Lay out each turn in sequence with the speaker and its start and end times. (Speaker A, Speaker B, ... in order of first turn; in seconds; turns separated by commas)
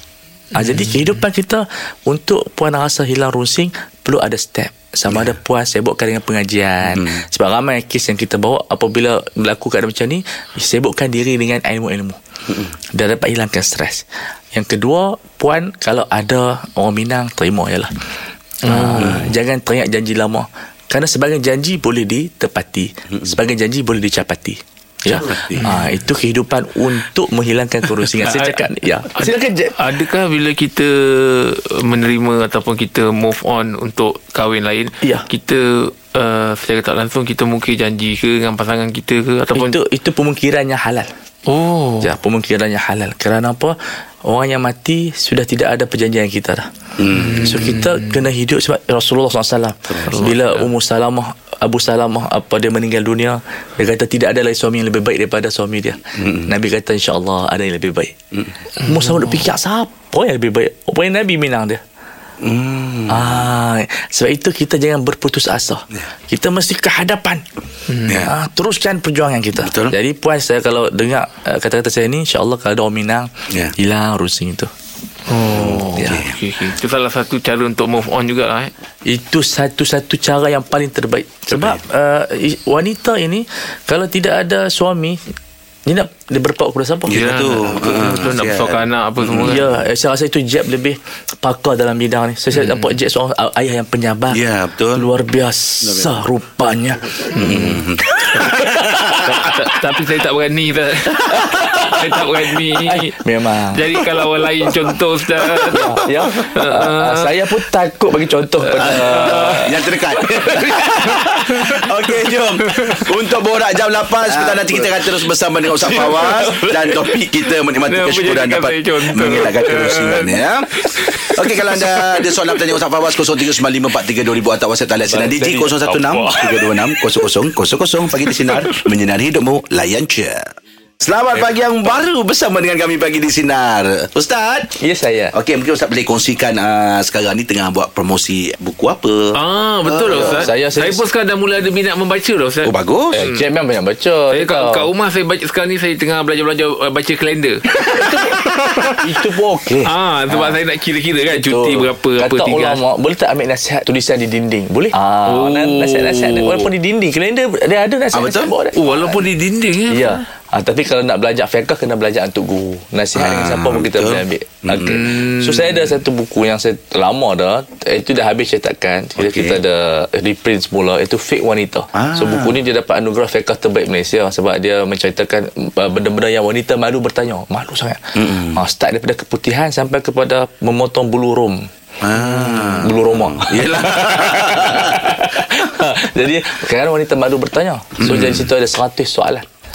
Speaker A: 0.5-12.2, Speaker B: 0.6-0.9, Speaker C: 6.9-7.2, Speaker A: 12.9-17.9, Speaker A: 18.6-29.8, Speaker B: 18.7-19.2, Speaker C: 19.0-19.3, Speaker C: 25.1-25.7, Speaker B: 25.6-25.9, Speaker B: 28.0-28.6, Speaker B: 29.1-39.8, Speaker A: 35.0-35.3, Speaker A: 39.5-41.1, Speaker B: 41.5-42.1, Speaker A: 42.0-46.7, Speaker C: 47.0-47.6, Speaker B: 47.1-48.2, Speaker A: 47.4-58.2, Speaker C: 49.9-50.3, Speaker B: 50.1-50.7, Speaker C: 56.2-56.5, Speaker A: 58.8-61.8, Speaker B: 58.8-59.3, Speaker C: 62.4-63.5, Speaker A: 63.1-67.4, Speaker B: 67.9-68.2, Speaker C: 68.1-68.3, Speaker A: 68.2-74.7, Speaker C: 69.6-70.0, Speaker C: 73.5-73.7, Speaker B: 75.3-78.7, Speaker C: 75.5-76.4, Speaker A: 75.9-76.2, Speaker A: 79.0-85.2, Speaker C: 81.5-81.8, Speaker A: 85.8-87.2, Speaker C: 87.1-89.7, Speaker B: 87.1-89.7, Speaker A: 89.4-94.4, Speaker B: 92.5-93.0, Speaker C: 94.3-95.1, Speaker A: 94.9-98.8, Speaker C: 95.8-96.2, Speaker C: 97.3-99.5, Speaker B: 97.3-97.7, Speaker B: 98.3-103.2, Speaker A: 101.3-102.2, Speaker A: 102.7-104.0, Speaker B: 103.7-107.3, Speaker C: 105.4-105.9, Speaker A: 105.7-109.7, Speaker B: 108.7-109.6, Speaker C: 108.8-120.7, Speaker A: 110.2-111.2, Speaker B: 110.7-112.0, Speaker B: 112.6-113.1, Speaker A: 116.0-116.7, Speaker B: 116.2-116.7, Speaker B: 117.8-122.4, Speaker C: 121.3-134.7, Speaker A: 125.1-126.7, Speaker A: 134.8-135.3, Speaker C: 135.3-139.4, Speaker B: 139.3-143.4, Speaker C: 139.9-140.4, Speaker A: 140.1-141.0, Speaker C: 142.6-143.3, Speaker A: 143.1-144.9, Speaker B: 144.3-149.0, Speaker A: 147.8-150.6, Speaker B: 149.8-152.8, Speaker A: 151.3-159.3, Speaker B: 155.2-156.7, Speaker C: 158.1-158.5, Speaker B: 158.8-160.2, Speaker A: 159.9-189.4, Speaker C: 163.1-165.0, Speaker B: 164.8-165.8, Speaker C: 169.2-169.6, Speaker C: 171.9-172.6, Speaker C: 178.1-178.6, Speaker C: 182.0-185.2, Speaker C: 188.0-188.5